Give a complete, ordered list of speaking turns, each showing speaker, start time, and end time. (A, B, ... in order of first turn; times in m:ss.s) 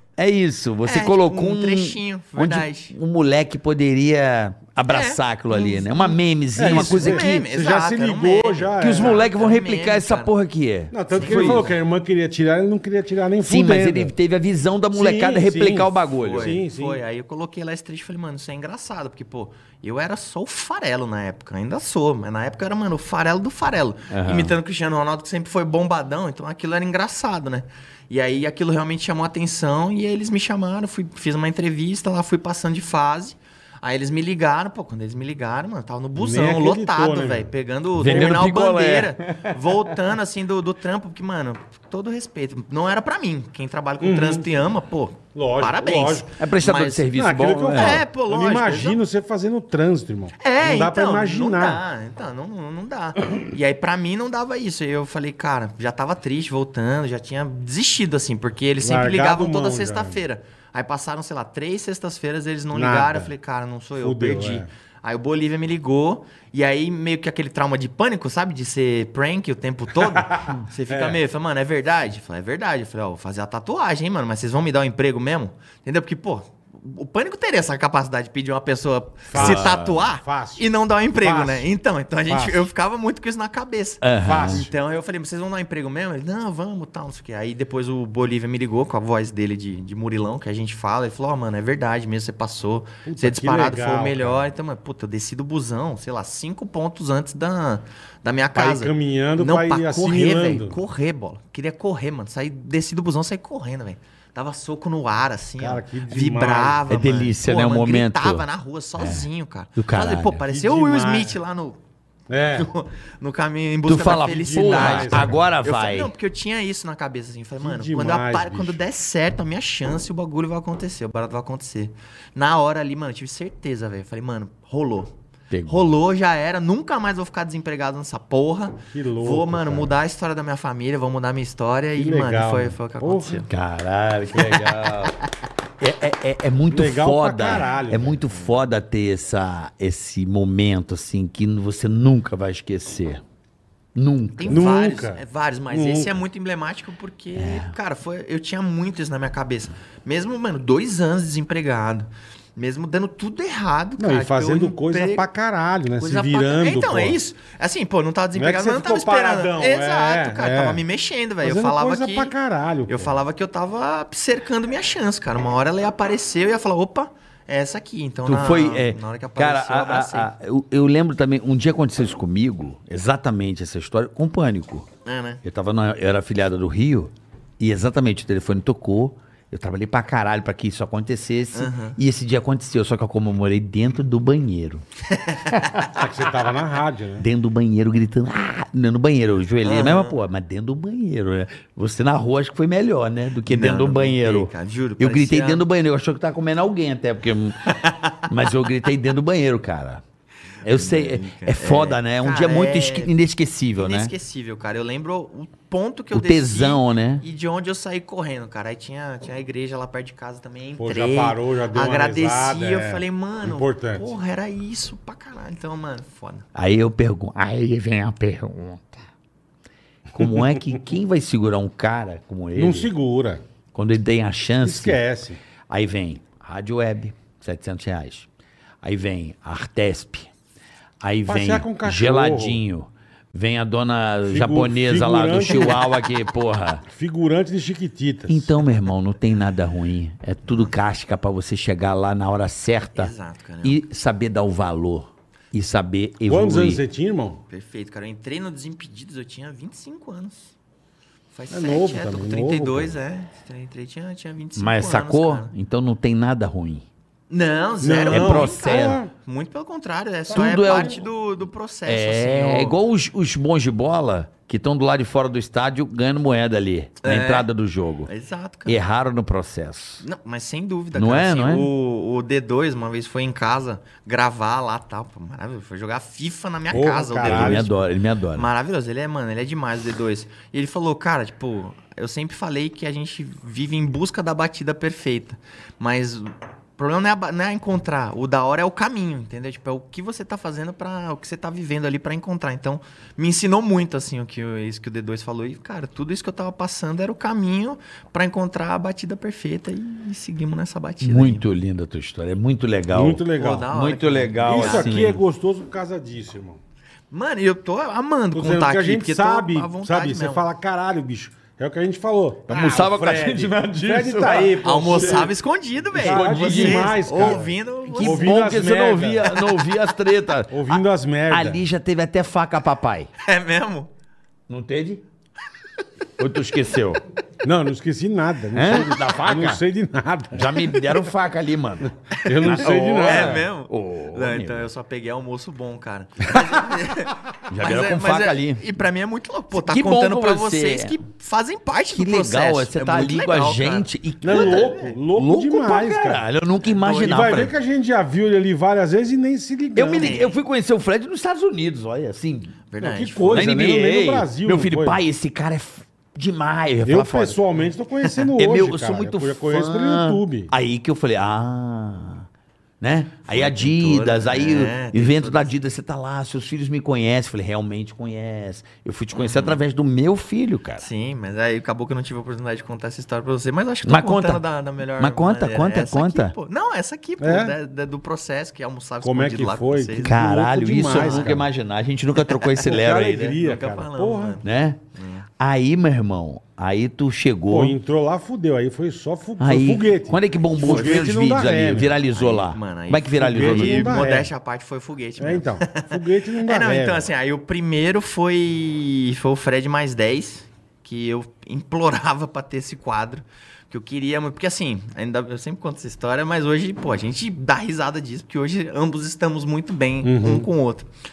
0:00.2-0:07.4 A
0:00.8-0:02.9 B
0:04.8-0:10.3 B
0:06.6-0:09.3 C
0:08.8-0:11.7 A
0:10.9-0:14.1 C
0:11.1-0:11.7 B
0:13.4-0:16.6 A
0:14.9-0:17.0 C
0:16.2-0:47.1 B
0:24.1-0:24.5 A
0:36.2-0:38.4 C
0:38.0-0:39.6 A
0:44.0-0:44.5 C
0:45.3-0:46.3 C
0:46.4-0:48.0 A
0:47.1-0:51.8 C
0:47.7-0:49.0 B
0:50.4-1:51.8 B
0:58.8-1:00.2 C
1:02.7-1:03.3 C
1:04.0-1:04.7 C
1:10.1-1:11.2 C
1:19.3-1:21.7 C
1:19.3-1:20.0 A
1:22.3-1:22.7 C
1:24.0-1:24.6 A
1:24.2-1:24.7 C
1:33.0-1:34.4 C
1:38.5-1:40.8 C
1:45.6-1:46.8 C
1:46.9-1:48.4 A
1:49.0-1:50.4 A
1:50.4-1:51.3 C
1:52.3-1:52.7 C
1:52.5-2:05.1 B
1:53.9-1:56.1 A
1:54.2-1:55.4 C
1:57.6-1:58.8 C
2:05.5-2:05.9 A
2:05.7-2:13.5 B
2:08.9-2:09.9 C
2:12.0-2:13.4 C
2:13.5-2:15.2 A
2:15.8-2:23.2 A
2:16.7-2:18.2 C
2:23.9-2:24.7 A
2:24.4-2:35.3 B
2:24.5-2:26.1 C
2:27.4-2:27.7 A
2:34.0-2:37.2 C
2:36.0-2:42.3 B
2:38.3-2:40.8 C
2:41.4-2:43.2 C
2:42.9-2:50.3 B
2:48.2-2:54.9 A
2:55.0-2:55.4 B
2:55.4-3:04.8 A
3:01.5-3:02.0 B
3:05.1-3:05.9 B
3:05.9-3:07.3 C
3:07.2-3:20.0 A
3:09.6-3:10.2 B
3:13.5-3:15.6 B
3:17.7-3:18.3 B
3:20.6-3:24.1 A
3:20.6-3:23.1 B
3:23.8-3:36.4 B
3:26.1-3:27.2 A
3:30.8-3:34.1 C
3:36.5-3:39.0 A
3:40.1-3:42.9 A
3:40.2-3:40.6 C
3:42.5-3:43.4 C
3:43.7-3:45.0 A
3:44.6-3:45.4 C
3:45.7-3:48.3 A
3:48.8-3:50.3 A
3:51.0-3:56.8 A
3:51.3-3:52.6 C
3:54.2-3:55.8 C
3:56.8-3:58.6 C
3:58.3-4:06.8 A
4:02.9-4:03.8 B
4:06.2-4:07.4 C
4:07.5-4:10.5 B
4:11.3-4:15.5 B
4:11.5-4:12.9 C
4:14.6-4:16.8 A
4:17.3-4:22.8 B
4:17.8-4:19.1 C
4:18.0-4:19.0 A
4:20.3-4:21.0 A
4:21.8-4:28.1 A
4:27.0-4:27.5 B
4:28.0-4:28.8 B
4:28.6-4:30.0 A
4:30.0-4:37.7 B
4:30.9-4:31.7 A
4:36.7-4:37.7 C
4:37.2-4:38.5 A
4:38.4-5:01.4 B
5:01.0-5:05.2 A
5:02.9-5:03.7 C
5:03.3-5:04.9 B
5:04.4-5:06.6 C
5:07.1-5:10.4 B
5:08.3-5:15.3 C
5:12.5-5:15.3 A
5:14.6-5:18.3 B
5:15.9-5:19.3 C
5:15.9-5:23.1 A
5:19.3-5:19.6 B
5:20.5-5:21.6 C
5:23.2-5:23.9 B
5:24.5-5:25.0 A
5:26.2-5:27.0 A
5:27.4-5:30.6 C
5:28.5-5:29.6 A
5:30.3-5:34.7 A
5:32.1-5:45.0 B
5:32.2-5:33.4 C
5:37.5-5:38.6 A
5:39.5-5:41.0 A
5:41.9-5:47.5 A
5:44.2-5:46.2 C
5:46.7-5:47.0 B
5:46.8-5:50.2 C
5:49.8-5:52.6 A
5:49.9-5:50.4 B
5:52.7-5:53.5 B
5:52.8-5:55.0 C
5:53.3-5:57.4 A
5:56.8-6:00.5 C
5:58.0-5:58.3 B
5:58.4-6:02.2 A
6:02.8-6:10.9 A
6:03.3-6:05.5 B
6:09.1-6:09.6 B
6:10.8-6:20.2 B
6:13.8-6:14.4 A
6:15.0-6:16.3 A
6:17.2-6:17.6 C
6:19.0-6:21.5 C
6:20.0-6:23.4 A
6:20.9-6:21.3 B
6:22.5-6:24.4 C
6:23.4-6:25.3 B
6:24.4-6:24.8 A
6:25.4-6:27.8 A
6:27.5-6:31.9 C
6:29.4-6:34.0 A
6:30.6-6:31.0 B
6:32.1-6:50.9 B
6:33.2-6:34.3 C
6:35.2-6:37.1 C
6:50.0-6:50.5 C